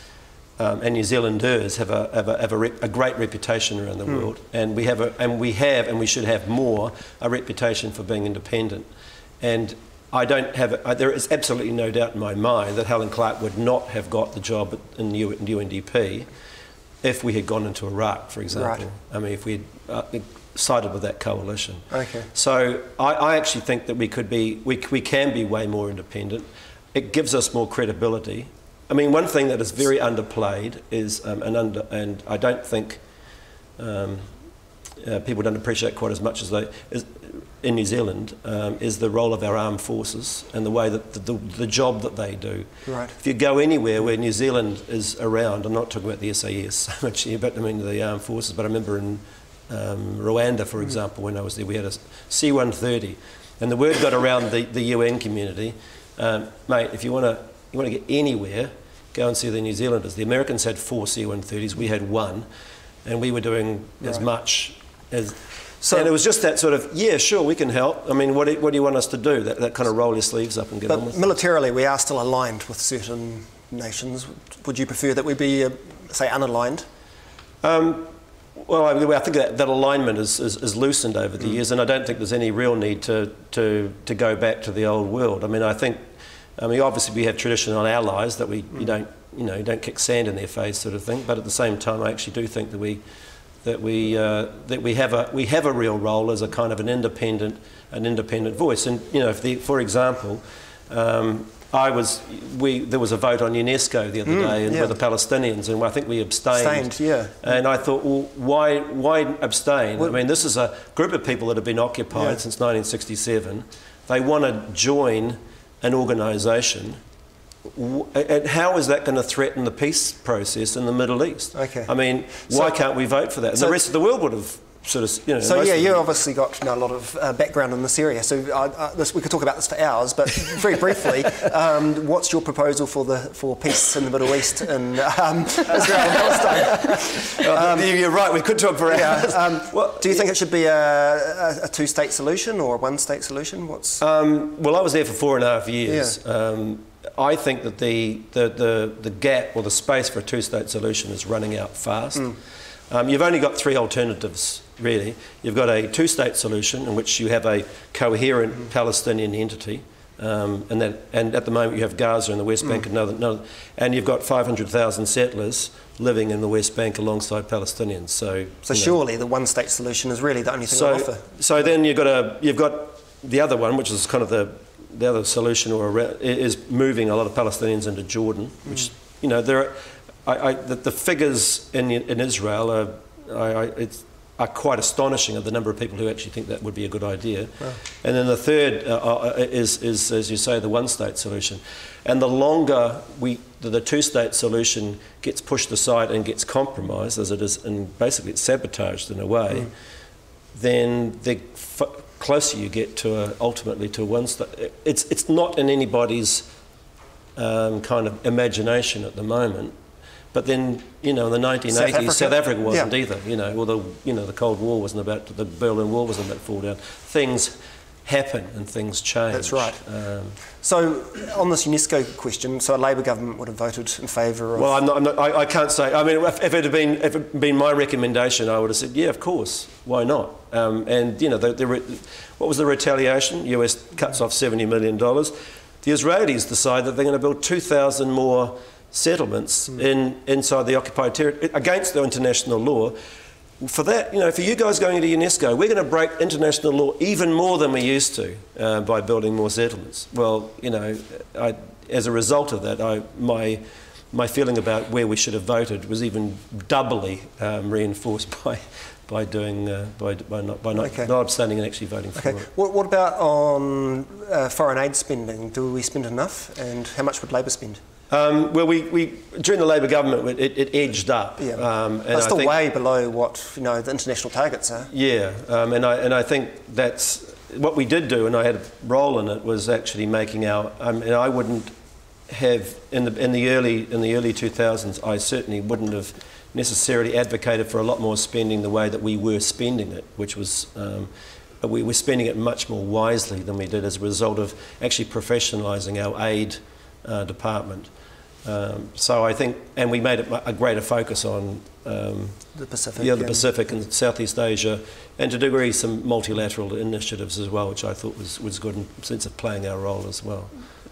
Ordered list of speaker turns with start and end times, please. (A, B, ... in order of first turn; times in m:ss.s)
0:00.6-0:08.9 A
0:09.4-0:16.3 A
0:17.0-0:33.0 A
0:18.5-0:18.8 B
0:21.9-0:22.3 B
0:33.8-0:34.3 A
0:35.0-1:02.5 A
0:42.9-0:43.2 B
1:03.0-1:11.3 A
1:05.8-1:06.1 B
1:10.9-1:16.9 B
1:17.6-1:26.0 A
1:26.6-1:33.0 A
1:33.6-1:57.0 A
1:44.3-1:44.9 B
1:46.5-1:47.5 B
1:52.1-1:52.4 B
1:57.7-2:06.0 A
2:01.5-2:01.9 B
2:02.5-2:02.7 B
2:05.4-2:17.9 B
2:16.3-2:20.3 A
2:18.9-2:24.0 B
2:24.0-2:32.4 A
2:32.9-2:49.0 A
2:48.6-2:51.3 B
2:50.7-3:19.7 A
3:20.5-3:26.5 A
3:27.4-3:29.8 A
3:30.3-3:40.4 A
3:31.7-3:32.9 B
3:39.3-3:39.8 B
3:40.6-3:44.8 B
3:44.6-4:03.0 A
4:03.6-4:22.5 A
4:20.8-4:21.1 B
4:22.2-4:27.8 B
4:28.1-4:32.6 A
4:31.4-4:34.9 B
4:34.9-4:41.7 A
4:42.3-4:57.9 A
4:58.4-5:10.5 A
5:02.6-5:03.4 B